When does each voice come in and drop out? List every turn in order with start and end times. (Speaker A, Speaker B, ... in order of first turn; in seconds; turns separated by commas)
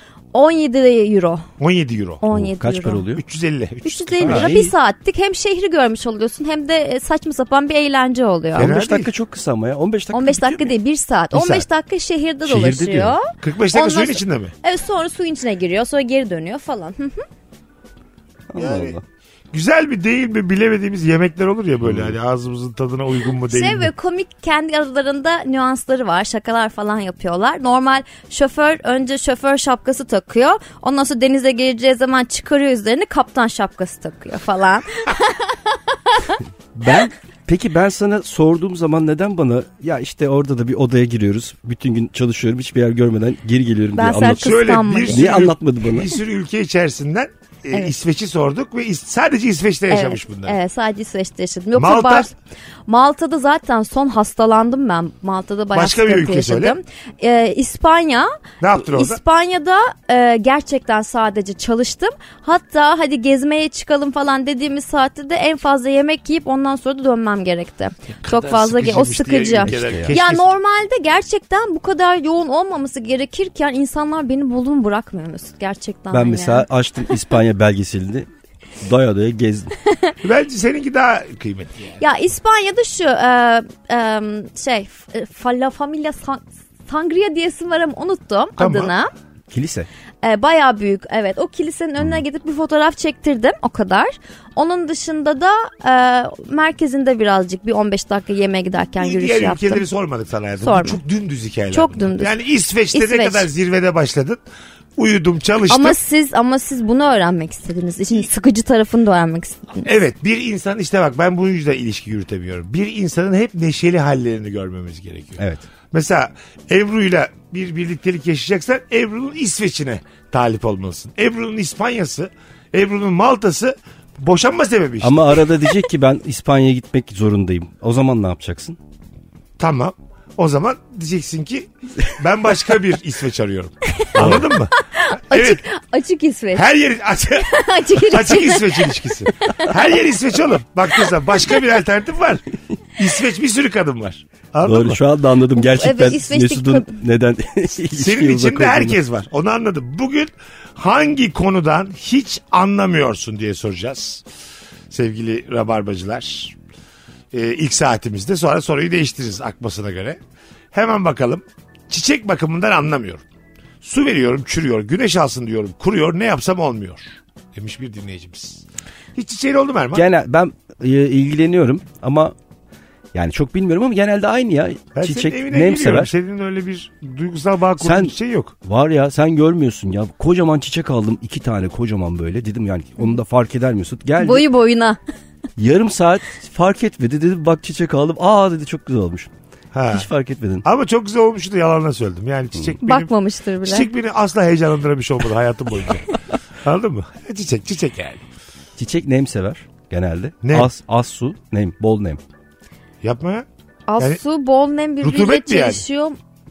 Speaker A: 0.3-1.5, Speaker B: 1.6-2.2, Speaker A: 2.2-3.0, Speaker C: 2.3-3.2, Speaker B: 3.2-4.6, Speaker A: 3.8-8.7, Speaker C: 4.2-4.7, Speaker C: 8.6-10.7, Speaker B: 8.6-9.1, Speaker A: 10.1-17.2, Speaker C: 11.3-11.7, Speaker C: 12.4-13.2, Speaker B: 13.4-14.5, Speaker C: 18.5-19.0, Speaker B: 18.6-19.0, Speaker B: 19.5-23.9, Speaker C: 21.8-22.1, Speaker A: 23.5-36.3, Speaker C: 36.8-44.6, Speaker A: 44.0-45.3, Speaker B: 44.4-50.6, Speaker C: 45.1-46.1, Speaker A: 49.9-52.3, Speaker B: 51.8-52.3, Speaker A: 52.9-77.1, Speaker B: 55.7-56.8, Speaker B: 58.6-59.2, Speaker B: 68.2-70.5, Speaker C: 69.6-70.1, Speaker C: 76.1-78.3, Speaker C: 78.8-79.7, Speaker B: 80.2-82.0, Speaker A: 82.0-89.1, Speaker B: 88.6-88.9, Speaker C: 89.5-89.9, Speaker A: 90.2-99.8, Speaker B: 99.0-104.4, Speaker A: 100.6-101.0, Speaker A: 101.7-102.3, Speaker A: 102.9-103.5, Speaker B: 105.0-106.0, Speaker A: 105.7-109.9, Speaker B: 109.8-115.4, Speaker C: 115.4-115.6, Speaker B: 115.9-125.4, Speaker C: 125.0-128.8, Speaker B: 129.6-134.7, Speaker C: 134.1-134.5, Speaker A: 134.8-136.7, Speaker B: 135.3-135.6, Speaker B: 136.5-142.4, Speaker A: 137.4-139.7, Speaker B: 143.0-145.0, Speaker C: 144.6-148.9, Speaker A: 145.6-146.9, Speaker B: 147.9-154.2, Speaker B: 154.9-156.6, Speaker B: 157.3-160.2, Speaker B: 160.7-163.2, Speaker B: 163.8-168.6, Speaker B: 169.2-170.1, Speaker C: 169.9-172.3, Speaker C: 173.1-176.1, Speaker B: 174.9-178.5, Speaker C: 177.8-184.5, Speaker A: 184.2-185.0, Speaker C: 185.6-189.3, Speaker B: 189.7-190.1, Speaker C: 189.9-190.6, Speaker B: 190.6-193.1, Speaker A: 192.8-193.9, Speaker B: 193.6-196.1, Speaker B: 196.6-198.2, Speaker C: 198.8-202.2, Speaker B: 200.4-200.7, Speaker B: 203.0-203.4, Speaker A: 203.9-206.2, Speaker B: 205.0-205.8